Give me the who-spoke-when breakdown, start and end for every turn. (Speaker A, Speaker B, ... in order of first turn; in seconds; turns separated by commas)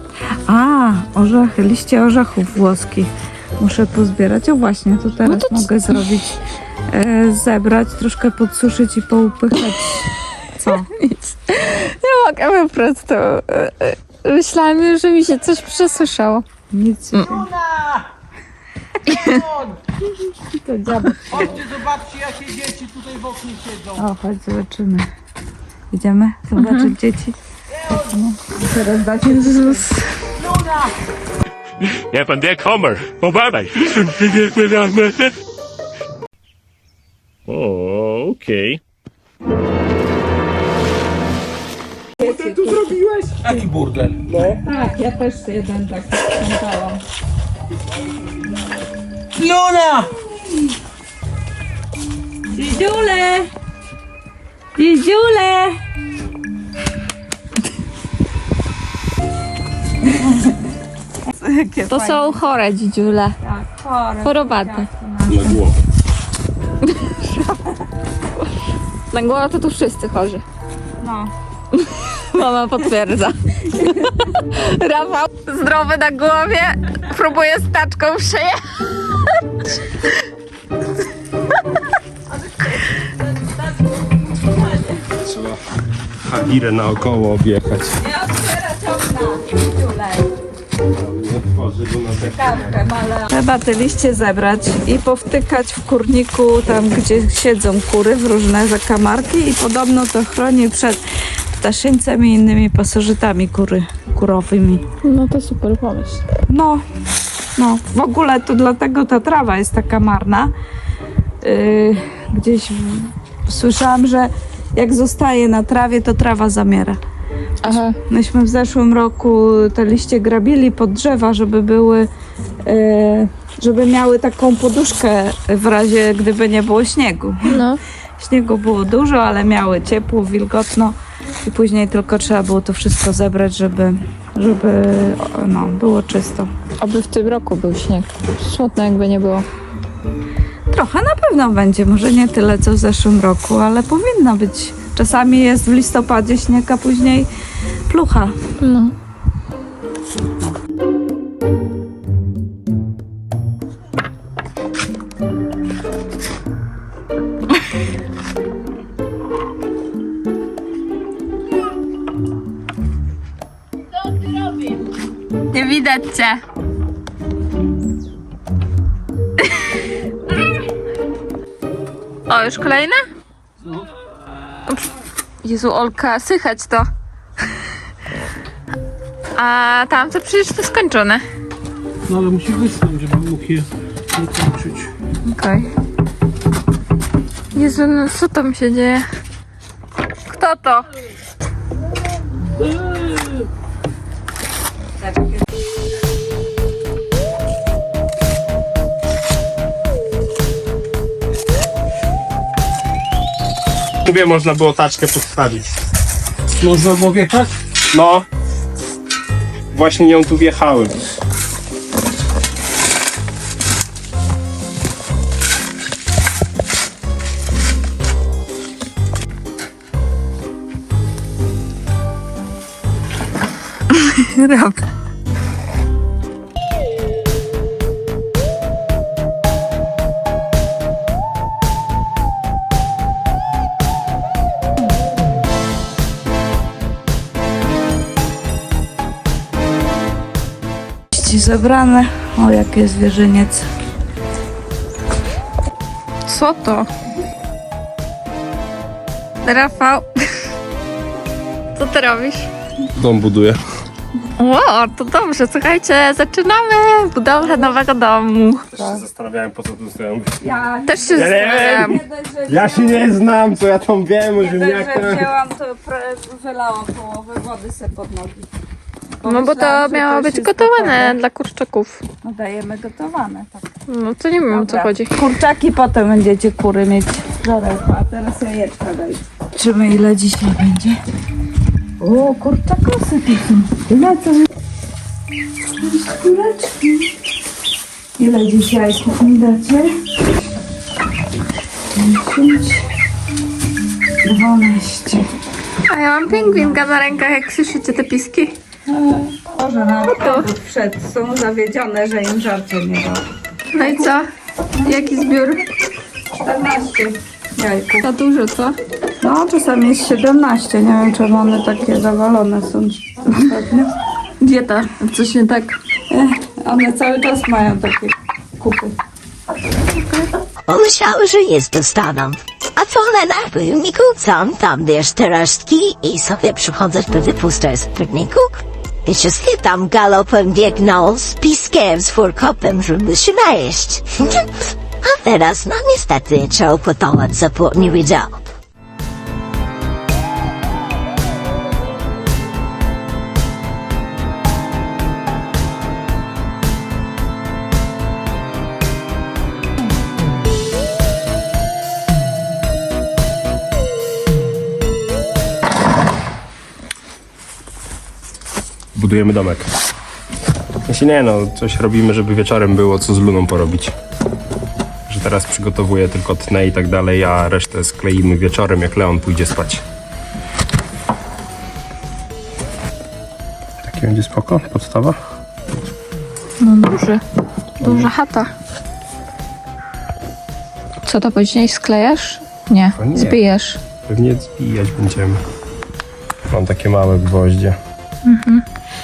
Speaker A: 0.5-6.4, Speaker B: 5.2-5.7, Speaker A: 6.9-10.1, Speaker A: 10.6-10.9, Speaker B: 10.7-16.4, Speaker A: 16.7-17.5, Speaker C: 17.2-18.0, Speaker B: 19.1-19.4, Speaker C: 19.2-19.8, Speaker A: 20.6-21.6, Speaker C: 21.3-24.1, Speaker A: 23.9-25.1, Speaker A: 25.9-27.4, Speaker B: 26.6-26.9, Speaker A: 27.9-29.9, Speaker B: 29.3-30.0, Speaker C: 30.4-30.9, Speaker D: 32.1-35.3, Speaker D: 37.5-38.8, Speaker A: 42.2-43.0, Speaker E: 42.2-43.5, Speaker C: 43.4-44.5, Speaker E: 44.3-44.6, Speaker A: 44.6-47.0, Speaker C: 49.4-50.1, Speaker A: 52.5-53.5, Speaker A: 54.8-55.8, Speaker A: 60.1-60.5, Speaker A: 61.3-62.4, Speaker B: 61.9-63.4, Speaker A: 63.4-65.6, Speaker B: 64.2-64.9, Speaker E: 65.3-65.7, Speaker B: 66.8-67.6, Speaker B: 69.1-70.4, Speaker A: 71.0-71.3, Speaker B: 71.7-79.0, Speaker A: 73.8-74.1, Speaker A: 82.3-85.0, Speaker E: 85.2-85.6, Speaker E: 86.2-88.0, Speaker A: 88.0-90.3, Speaker E: 90.9-92.8, Speaker A: 92.2-101.0, Speaker A: 101.6-104.8, Speaker B: 105.0-106.2, Speaker A: 106.5-106.8, Speaker A: 107.6-110.5, Speaker A: 111.4-117.0, Speaker B: 117.6-118.0, Speaker A: 117.7-122.1, Speaker A: 122.7-127.6, Speaker B: 127.5-127.8, Speaker A: 128.2-136.5, Speaker B: 136.8-139.4, Speaker A: 140.7-147.3, Speaker A: 147.9-148.3, Speaker B: 148.6-148.9, Speaker B: 165.5-166.4, Speaker B: 172.3-173.0, Speaker B: 175.4-176.8, Speaker B: 179.4-181.2, Speaker C: 182.1-184.9, Speaker B: 185.3-185.7, Speaker B: 187.6-189.1, Speaker B: 190.3-190.9, Speaker C: 192.6-193.4, Speaker A: 195.0-195.4, Speaker E: 204.0-205.7, Speaker C: 206.6-207.5, Speaker E: 207.9-208.2, Speaker E: 209.7-211.0, Speaker B: 223.9-224.8, Speaker A: 241.1-243.7, Speaker B: 246.2-246.9, Speaker B: 249.4-250.1, Speaker B: 251.8-252.5, Speaker E: 252.9-253.6, Speaker B: 254.4-258.6, Speaker E: 258.7-260.4, Speaker A: 260.4-263.1, Speaker B: 260.9-262.0, Speaker E: 261.1-265.3, Speaker A: 264.4-268.5, Speaker A: 269.2-271.2, Speaker B: 269.2-272.0, Speaker A: 272.2-273.7, Speaker B: 273.9-275.1, Speaker A: 274.5-281.0, Speaker A: 282.0-284.5, Speaker A: 285.8-287.1, Speaker A: 288.2-289.9, Speaker A: 291.9-292.9, Speaker A: 294.2-295.2, Speaker B: 295.9-298.6, Speaker A: 298.9-303.2, Speaker B: 300.1-300.5, Speaker B: 303.7-304.2, Speaker A: 303.8-304.2, Speaker B: 304.9-305.7, Speaker A: 306.4-308.1, Speaker B: 308.0-308.8, Speaker A: 309.2-313.9, Speaker B: 314.4-315.8, Speaker A: 316.1-318.9, Speaker B: 320.0-320.3, Speaker F: 320.7-334.5, Speaker F: 335.0-338.4, Speaker E: 358.9-359.7, Speaker E: 360.9-363.9, Speaker E: 365.1-369.8, Speaker E: 373.8-375.2, Speaker B: 376.6-377.2, Speaker B: 377.8-378.5, Speaker E: 377.8-378.1, Speaker B: 381.1-383.8, Speaker E: 382.9-383.4, Speaker E: 384.1-385.4, Speaker E: 386.5-387.8, Speaker B: 388.2-388.6